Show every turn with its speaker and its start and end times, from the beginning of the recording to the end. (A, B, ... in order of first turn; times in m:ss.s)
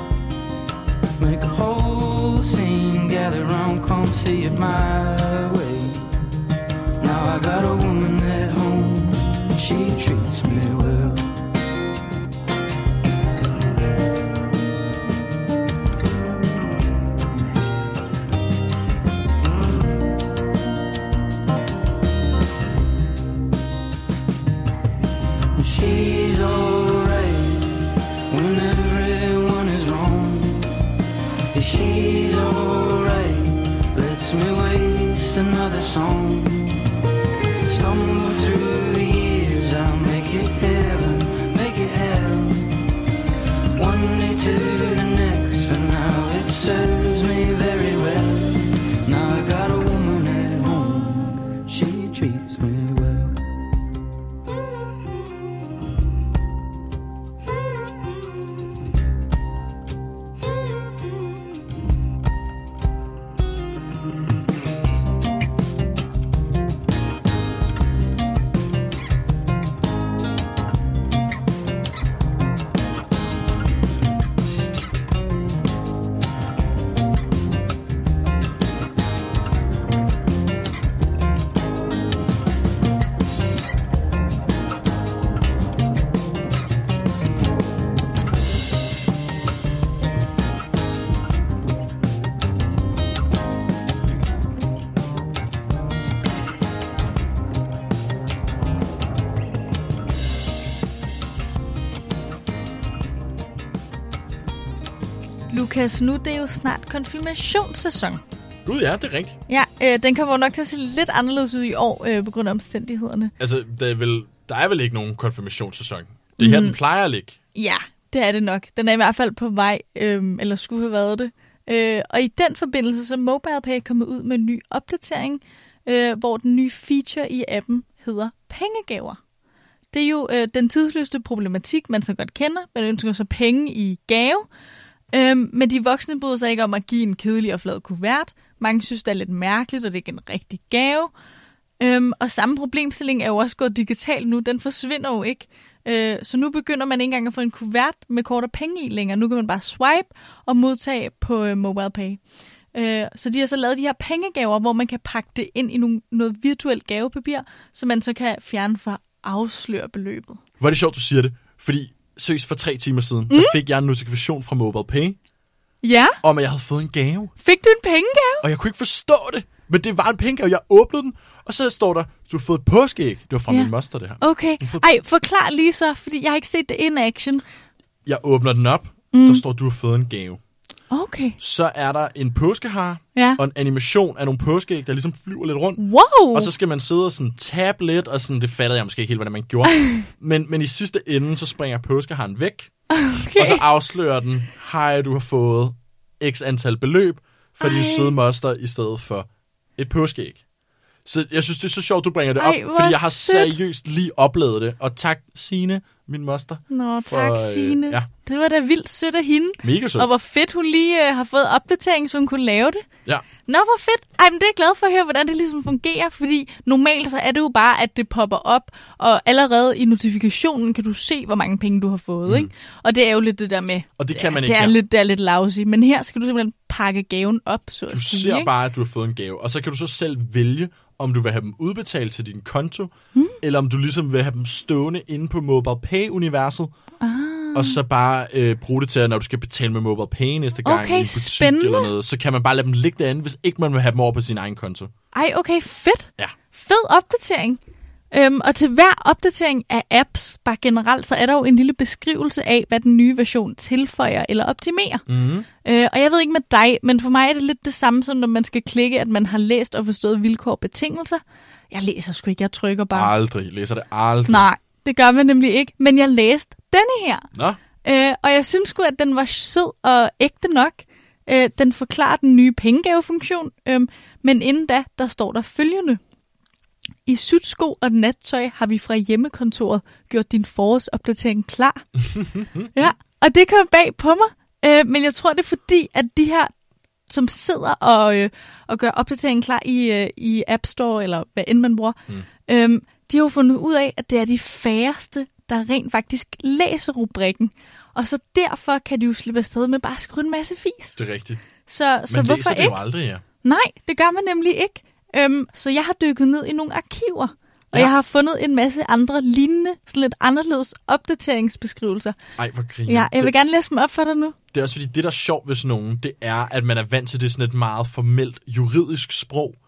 0:01.2-0:06.0 A
0:07.0-0:11.3 A
0:25.6-0:30.7 A
0:31.5-0:36.8 A
0:37.6-0:42.8 A
0:43.8-0:53.4 A
1:45.5-1:48.2 B
1:48.6-1:49.4 C
1:49.5-1:53.3 B
1:53.4-1:57.4 C
1:56.4-1:56.8 B
1:57.6-2:09.2 B
2:09.9-2:14.5 B
2:15.1-2:21.1 B
2:21.8-2:32.2 B
2:32.7-2:40.4 B
2:40.6-2:45.2 C
2:43.3-2:43.6 B
2:45.8-2:46.2 B
2:46.2-2:47.3 C
2:47.4-2:48.5 B
2:48.4-2:55.0 C
2:53.5-2:57.4 B
2:58.1-3:00.4 C
2:59.1-2:59.4 B
3:00.9-3:01.4 B
3:01.4-3:12.7 C
3:03.2-3:03.4 B
3:05.8-3:06.5 B
3:09.7-3:10.0 B
3:12.9-3:13.6 B
3:13.4-3:20.4 C
3:17.6-3:18.2 B
3:21.1-3:28.1 C
3:22.4-3:23.6 B
3:26.7-3:32.9 B
3:29.6-3:30.1 C
3:33.5-3:48.5 B
3:44.0-3:44.8 C
3:47.9-3:56.7 C
3:57.0-3:57.8 B
3:57.5-4:04.9 C
4:00.6-4:01.9 B
4:05.1-4:07.6 B
4:08.1-4:15.0 B
4:15.1-4:15.5 C
4:15.6-4:23.1 B
4:22.9-4:24.5 C
4:24.3-4:27.3 B
4:27.3-4:27.6 C
4:27.8-4:36.0 B
4:37.1-4:41.9 B
4:42.1-4:42.7 C
4:42.7-4:46.5 B
4:47.1-5:01.0 B
5:01.0-5:01.4 C
5:01.7-5:02.8 B
5:02.1-5:03.2 C
5:03.4-5:12.2 B
5:12.4-5:13.3 C
5:12.9-5:14.4 B
5:14.5-5:19.6 C